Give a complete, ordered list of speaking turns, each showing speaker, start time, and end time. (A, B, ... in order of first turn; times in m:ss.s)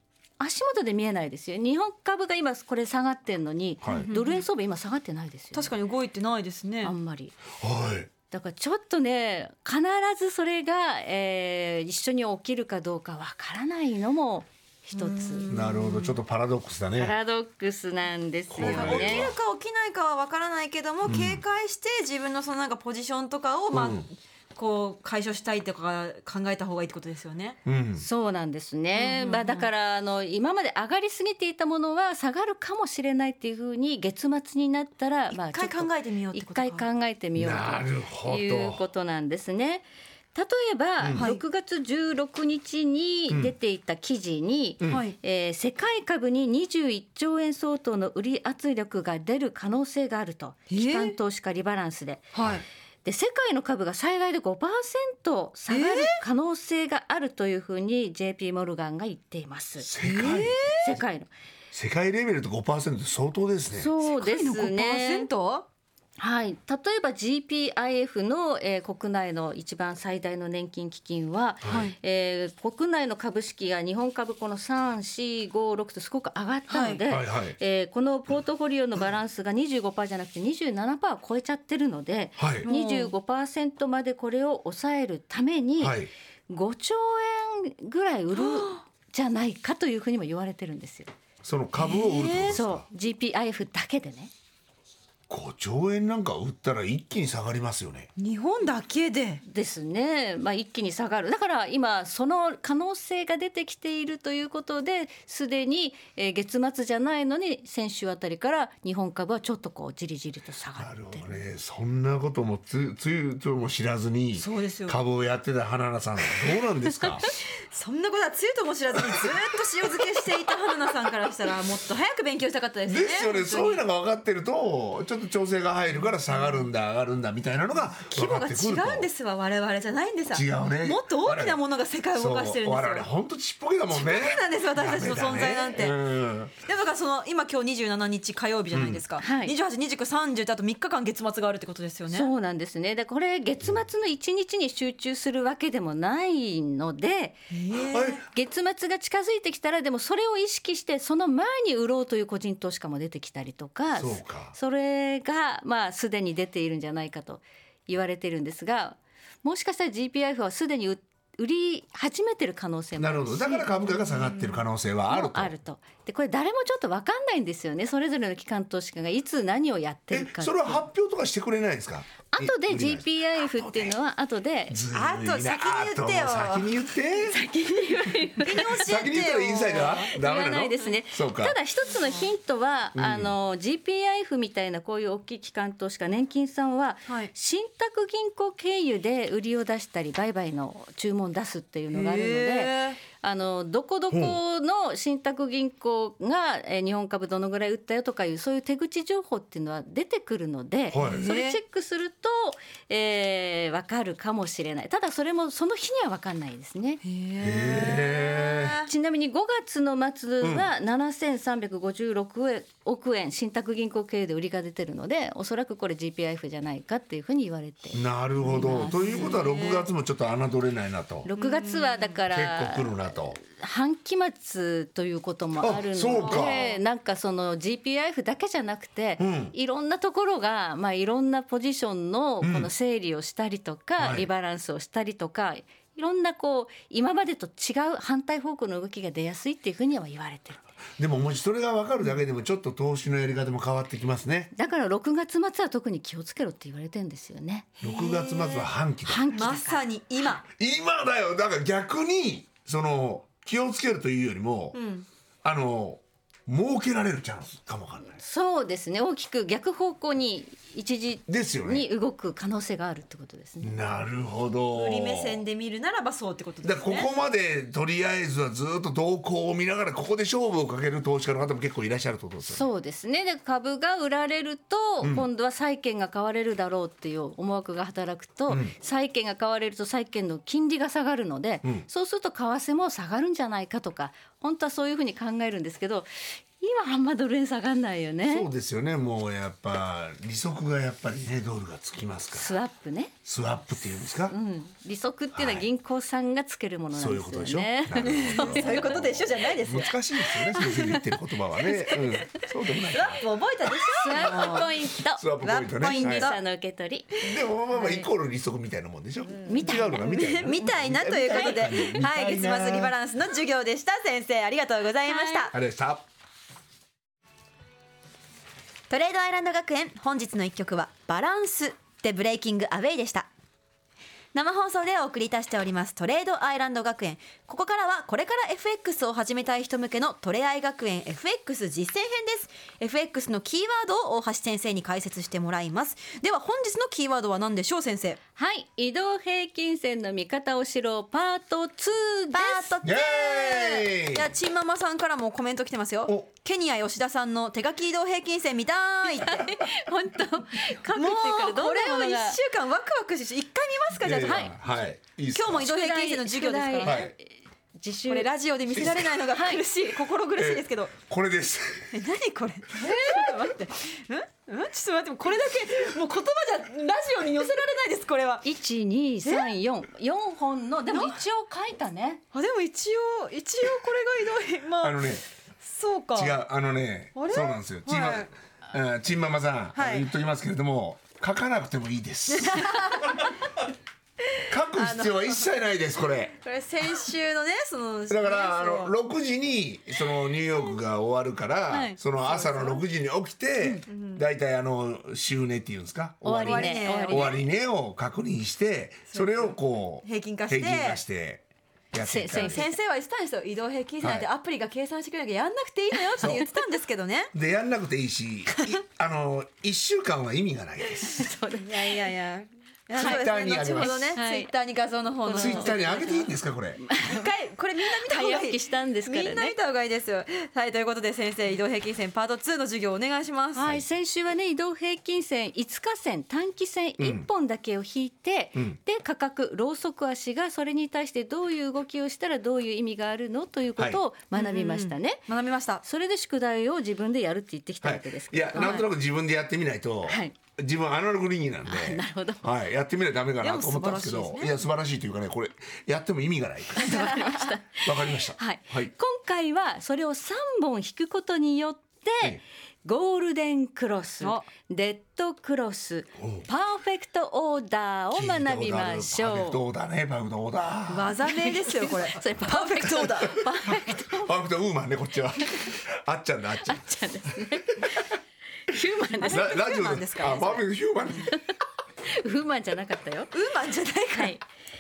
0:00.4-0:05.7 A
0:03.8-0:04.1 B
0:03.9-0:04.4 C
0:05.5-0:06.9 C
0:06.8-0:07.4 A
0:07.6-0:08.1 B
0:08.3-0:15.5 A
0:15.0-0:16.2 C
0:15.5-0:17.2 B
0:17.0-0:19.3 A
0:18.5-0:19.4 B
0:18.6-0:27.6 C
0:21.1-0:21.4 B
0:23.7-0:24.1 B
0:27.7-0:28.0 B
0:28.0-0:52.3 A
0:28.9-0:29.7 C
0:35.3-0:36.9 C
0:37.4-0:38.8 B
0:41.0-0:41.3 B
0:41.2-0:41.4 C
0:44.9-0:45.2 C
0:50.7-0:51.2 C
0:52.3-0:52.6 C
0:53.0-0:59.9 A
0:55.7-0:56.2 C
0:59.8-1:00.6 B
1:00.0-1:00.9 C
1:00.8-1:01.3 A
1:01.7-1:03.9 B
1:03.7-1:05.3 A
1:04.0-1:05.7 C
1:06.2-1:31.1 A
1:11.6-1:11.9 B
1:11.7-1:12.0 C
1:16.7-1:17.0 C
1:17.1-1:17.6 B
1:22.4-1:22.7 B
1:22.6-1:23.1 C
1:25.8-1:26.1 B
1:28.4-1:28.8 C
1:31.4-1:32.8 B
1:31.8-1:32.6 C
1:32.5-1:34.3 A
1:35.3-1:38.1 B
1:38.2-1:39.4 C
1:39.4-1:51.4 A
1:50.8-1:57.3 B
1:54.4-1:55.0 C
1:57.7-2:03.8 C
2:02.9-2:09.1 B
2:06.3-2:06.6 C
2:08.1-2:13.1 C
2:10.3-2:11.6 B
2:12.1-2:16.5 B
2:13.9-2:16.0 C
2:16.6-2:22.3 C
2:18.7-2:19.0 B
2:19.2-2:19.5 A
2:22.1-2:27.5 A
2:27.5-2:28.2 C
2:27.7-2:28.2 B
2:28.3-2:43.7 A
2:34.0-2:34.6 B
2:43.0-2:45.5 B
2:44.0-2:44.6 C
2:45.1-2:50.8 A
2:50.1-2:54.0 B
2:52.3-2:54.8 A
2:54.7-2:57.4 B
2:54.9-2:56.8 C
2:57.3-2:58.8 A
2:58.4-3:00.1 C
2:58.8-3:01.6 B
3:00.2-3:27.0 A
3:03.0-3:03.4 B
3:11.9-3:13.0 C
3:14.1-3:14.4 B
3:20.9-3:21.2 B
3:21.0-3:21.6 C
3:27.0-3:28.9 C
3:27.4-3:28.8 B
3:28.9-3:39.4 A
3:30.4-3:30.7 B
3:37.9-3:41.3 B
3:38.6-3:39.9 C
3:41.3-4:00.7 A
3:41.4-3:42.2 C
3:42.3-3:43.4 B
3:45.6-3:46.7 B
3:46.2-3:46.7 C
3:49.2-3:49.6 B
3:52.4-3:52.7 B
3:54.0-3:54.3 B
4:01.0-4:04.5 B
4:04.5-4:07.7 A
4:07.8-4:08.7 C
4:07.8-4:09.3 B
4:09.1-4:09.8 A
4:09.3-4:10.4 C
4:10.6-4:14.8 B
4:14.7-4:15.1 C
4:15.4-4:18.2 B
4:18.2-4:23.8 A
4:21.3-4:21.9 B
4:23.6-4:25.4 B
4:24.7-4:27.1 C
4:26.6-4:32.6 B
4:32.4-4:48.5 A
4:35.0-4:35.3 B
4:38.5-4:38.7 B
4:48.3-4:52.6 B
4:52.3-4:53.1 A
4:53.2-4:54.4 B
4:54.2-4:59.0 A
4:55.3-4:55.7 B
4:56.9-5:03.2 B
4:58.0-5:00.7 C
5:00.5-5:01.0 A
5:01.6-5:02.0 A
5:02.8-5:04.7 C
5:03.9-5:05.2 A
5:04.2-5:06.3 B
5:05.4-5:06.4 C
5:05.9-5:07.1 A
5:07.2-5:13.0 B
5:09.4-5:10.2 A
5:09.6-5:15.6 C
5:11.3-5:11.9 A
5:15.1-5:15.5 A
5:15.5-5:16.0 B
5:18.9-5:23.3 C
5:24.3-5:38.2 C
5:38.4-5:42.8 A
5:42.3-5:49.6 C
5:42.8-5:44.3 B
5:49.2-5:52.4 A
5:50.9-5:54.6 C
5:54.0-5:55.7 B
5:54.2-5:54.5 A
5:55.3-5:57.1 C
5:55.6-5:58.3 A
5:56.8-5:57.1 B
5:58.1-6:00.9 C
5:58.8-5:59.1 B
5:59.3-5:59.6 A
6:00.4-6:02.0 B
6:01.9-6:08.4 C
6:02.8-6:03.4 A
6:08.4-6:12.2 A
6:09.2-6:09.5 C
6:10.9-6:11.2 C
6:12.3-6:16.4 C
6:14.8-6:15.2 B
6:16.2-6:23.3 B
6:17.2-6:18.3 C
6:19.8-6:20.1 C
6:22.4-6:23.4 C
6:24.3-6:25.4 C
6:24.5-6:26.4 B
6:26.4-6:28.9 C
6:28.1-6:42.6 B
6:31.7-6:32.0 A
6:32.3-6:32.8 C
6:33.9-6:34.2 C
6:36.2-6:37.4 A
6:36.3-6:37.4 C
6:39.1-6:41.0 C
6:42.0-6:42.7 A
6:42.3-6:47.3 C
6:44.0-6:44.3 B
6:46.2-6:46.4 B
6:47.3-6:51.3 B
6:51.1-6:52.0 A
6:51.6-6:56.3 C
6:53.0-6:54.1 B
6:53.0-6:54.5 A
6:55.2-6:56.1 A
6:55.4-6:56.8 B
6:56.8-6:57.3 A
6:57.0-7:03.7 C
6:58.0-6:59.6 A
7:03.5-7:15.2 A
7:07.0-7:07.3 B
7:14.3-7:15.8 C
7:15.8-7:18.9 A
7:17.8-7:28.9 B
7:20.1-7:20.4 A
7:21.7-7:22.5 A
7:23.4-7:24.6 C
7:26.8-7:39.6 A
7:36.2-7:36.5 B
7:38.1-7:41.2 B
7:40.9-7:43.4 C
7:41.3-7:44.3 A
7:43.3-7:48.0 B
7:46.6-7:48.1 A
7:48.7-7:49.6 A
7:49.2-7:50.7 C
7:49.3-7:51.4 B
7:52.0-7:53.3 A
7:53.3-7:54.4 C
7:54.1-7:54.4 A